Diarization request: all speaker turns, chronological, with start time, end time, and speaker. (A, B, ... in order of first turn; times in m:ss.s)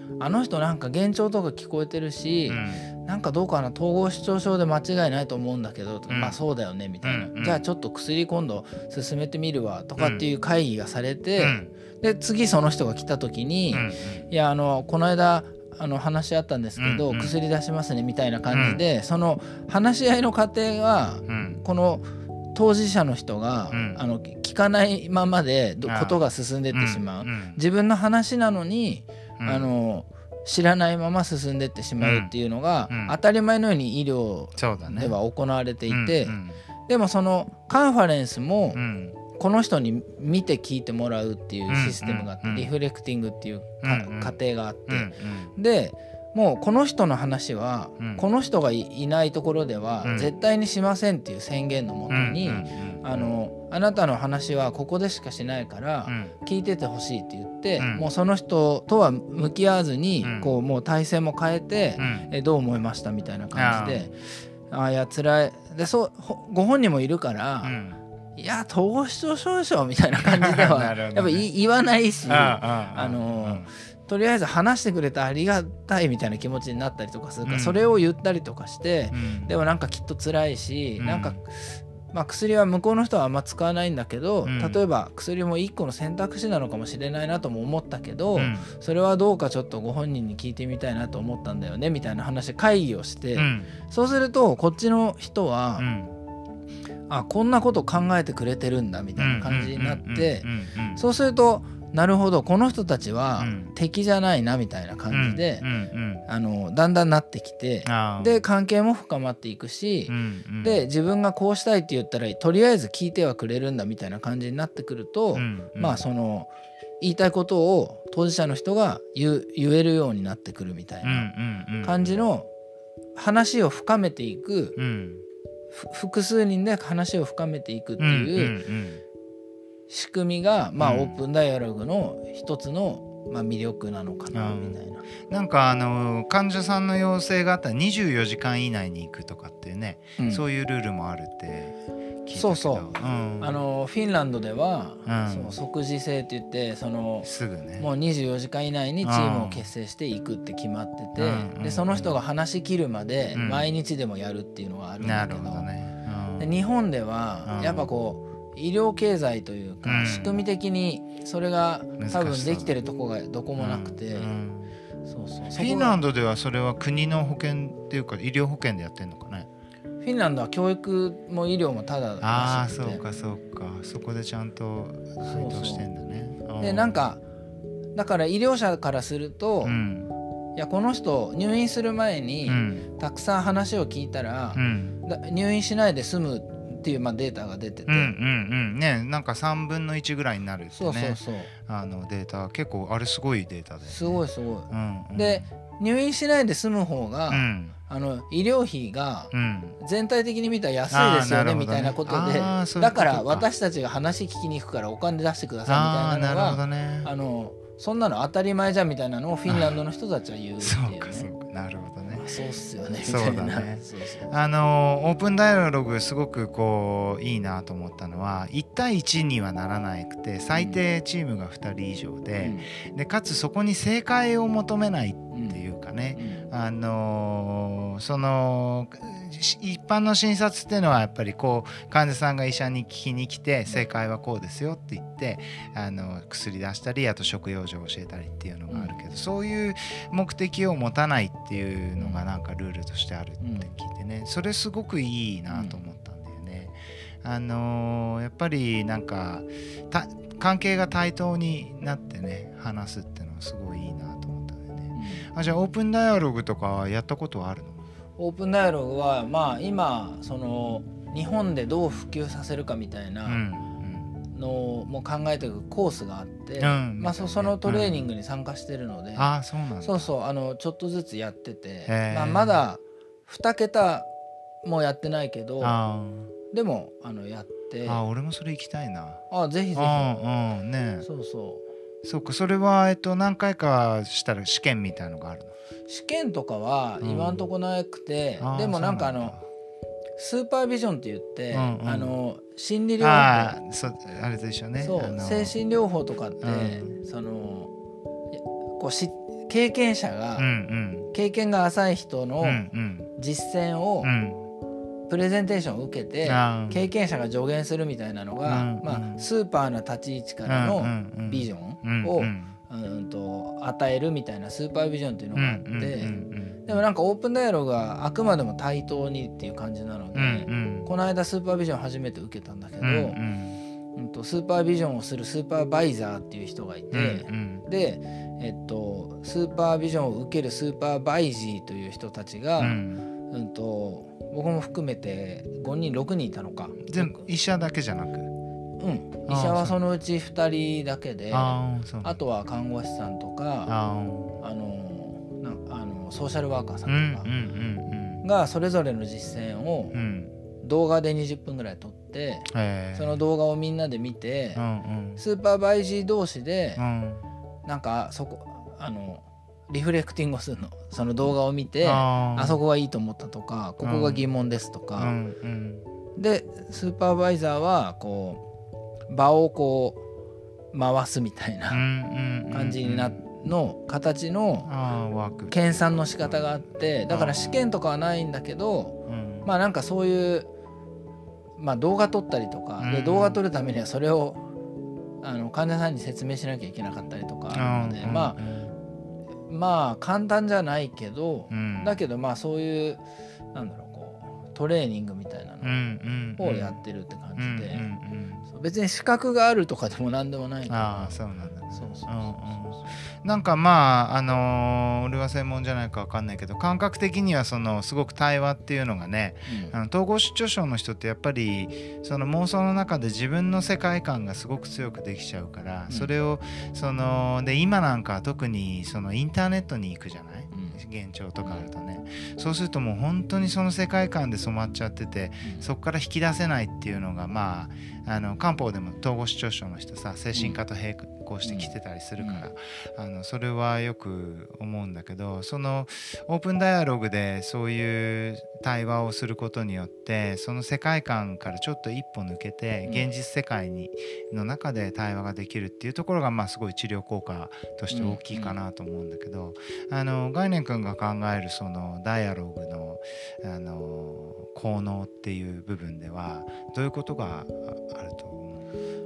0:00.2-0:38.8 A
0:02.5-0:02.8 B
0:06.1-0:06.4 B
0:07.0-0:07.6 B
0:10.0-0:10.2 B
0:11.4-0:11.7 B
0:13.7-0:14.2 B
0:16.8-0:17.3 B
0:18.5-0:18.8 B
0:21.3-0:21.6 B
0:23.7-0:24.0 B
0:25.9-0:27.6 B
0:29.4-0:29.7 B
0:32.0-0:32.3 B
0:32.9-0:33.2 B
0:34.5-0:35.2 B
0:35.9-0:36.6 B
0:38.7-0:39.2 B
0:39.3-1:07.8 A
0:41.7-0:42.7 B
0:43.8-0:44.4 B
0:44.9-0:45.5 B
0:50.0-0:50.3 B
0:52.1-0:53.3 B
0:56.0-0:56.3 B
0:57.8-0:58.0 B
1:00.2-1:00.6 B
1:02.0-1:02.3 B
1:03.5-1:04.1 B
1:07.6-1:08.0 B
1:08.4-1:35.9 A
1:10.2-1:11.4 B
1:12.2-1:13.7 B
1:17.4-1:17.8 B
1:19.1-1:19.5 B
1:21.0-1:21.4 B
1:24.4-1:24.8 B
1:28.3-1:28.7 B
1:33.4-1:33.7 B
1:35.8-1:36.2 B
1:37.1-1:45.6 A
1:39.2-1:41.0 B
1:43.4-1:43.7 B
1:45.1-1:46.2 B
1:46.3-2:01.3 A
1:47.8-1:48.4 B
1:50.1-1:50.8 B
1:55.3-1:56.0 B
2:01.0-2:02.2 B
2:01.8-2:02.5 A
2:03.2-2:04.8 A
2:04.8-2:05.2 B
2:05.7-2:08.6 A
2:08.0-2:09.0 B
2:09.9-2:15.0 A
2:10.8-2:11.2 B
2:14.3-2:21.7 B
2:20.2-2:20.4 A
2:22.2-2:23.6 B
2:22.3-2:35.6 A
2:25.0-2:25.6 B
2:27.2-2:27.9 B
2:29.0-2:29.7 B
2:31.2-2:32.1 B
2:33.3-2:33.7 B
2:35.0-2:36.5 B
2:36.4-2:44.3 A
2:37.4-2:37.9 B
2:39.8-2:40.4 B
2:42.0-2:42.8 B
2:43.6-2:44.8 B
2:45.0-2:46.0 A
2:45.5-2:49.5 B
2:50.0-2:53.0 A
2:52.2-2:57.0 B
2:55.2-2:55.9 A
2:56.6-2:57.2 A
2:57.9-2:59.8 A
2:59.6-3:00.1 B
3:00.6-3:08.1 A
3:02.5-3:02.9 B
3:04.5-3:05.0 B
3:07.9-3:15.4 B
3:10.7-3:11.5 A
3:13.8-3:31.3 A
3:17.3-3:17.8 B
3:19.3-3:19.8 B
3:20.9-3:23.5 B
3:25.7-3:27.1 B
3:29.5-3:29.8 B
3:30.6-3:32.2 B
3:32.0-3:34.3 A
3:33.0-4:17.8 B
3:40.5-3:40.8 A
3:42.4-3:42.7 A
3:45.3-3:45.6 A
3:46.1-3:46.4 A
3:58.7-3:59.0 A
4:02.0-4:02.2 A
4:03.4-4:03.7 A
4:05.5-4:05.8 A
4:14.9-4:15.3 A
4:18.2-4:23.4 A
4:23.2-4:24.1 B
4:24.3-4:34.1 A
4:26.6-4:28.1 B
4:29.2-4:30.1 B
4:31.9-4:32.6 B
4:34.6-4:35.7 A
4:35.6-4:36.3 B
4:36.5-4:38.0 A
4:37.8-4:39.2 B
4:39.3-4:40.1 A
4:39.7-4:41.0 B
4:41.0-4:41.6 A
4:42.0-4:45.5 B
4:45.9-4:49.4 A
4:47.0-4:47.4 B
4:48.4-4:49.4 B
4:50.2-4:53.6 A
4:51.5-4:52.1 B
4:53.0-4:55.5 B
4:54.8-4:57.7 A
4:56.4-4:56.9 B
4:58.3-5:00.5 A
5:00.4-5:01.1 B
5:01.1-5:04.1 A
5:02.4-5:03.1 B
5:04.0-5:04.5 B
5:05.1-5:16.1 A
5:06.2-5:06.8 B
5:08.4-5:09.2 B
5:10.5-5:12.5 B
5:15.4-5:16.7 B
5:16.6-5:23.2 A
5:20.1-5:20.9 B
5:22.8-5:23.6 B
5:23.9-5:37.2 A
5:26.9-5:27.6 B
5:32.6-5:33.1 B
5:36.8-5:38.3 B
5:38.8-5:43.7 A
5:39.3-5:39.8 B
5:41.3-5:42.2 B
5:43.7-5:44.4 B
5:44.4-5:47.3 A
5:46.9-5:48.2 B
5:48.2-5:50.0 A
5:49.9-5:50.3 B
5:50.6-5:54.6 A
5:52.5-5:53.2 B
5:54.5-5:55.2 B
5:55.2-5:56.8 A
5:56.8-5:57.2 B
5:57.6-6:05.1 A
6:01.8-6:02.6 B
6:03.8-6:04.2 B
6:05.0-6:05.8 B
6:06.2-6:08.4 A
6:09.1-6:10.0 A
6:10.7-6:11.8 A
6:11.7-6:13.2 B
6:12.5-6:14.7 A
6:14.6-6:17.5 B
6:15.5-6:20.5 A
6:19.1-6:19.5 B
6:21.6-6:24.4 A
6:22.8-6:23.4 B
6:25.2-6:28.4 A
6:27.5-6:28.7 B
6:29.5-6:33.0 A
6:31.5-6:32.0 B
6:33.5-6:35.7 A
6:35.6-6:36.8 B
6:36.4-6:37.8 A
6:37.4-6:38.4 B
6:38.5-6:41.2 A
6:40.7-7:38.6 B
6:41.7-6:43.0 A
6:49.5-6:49.7 A
7:00.5-7:00.8 A
7:01.4-7:01.7 A
7:10.3-7:10.6 A
7:11.4-7:12.5 A
7:22.8-7:23.1 A
7:27.9-7:28.6 A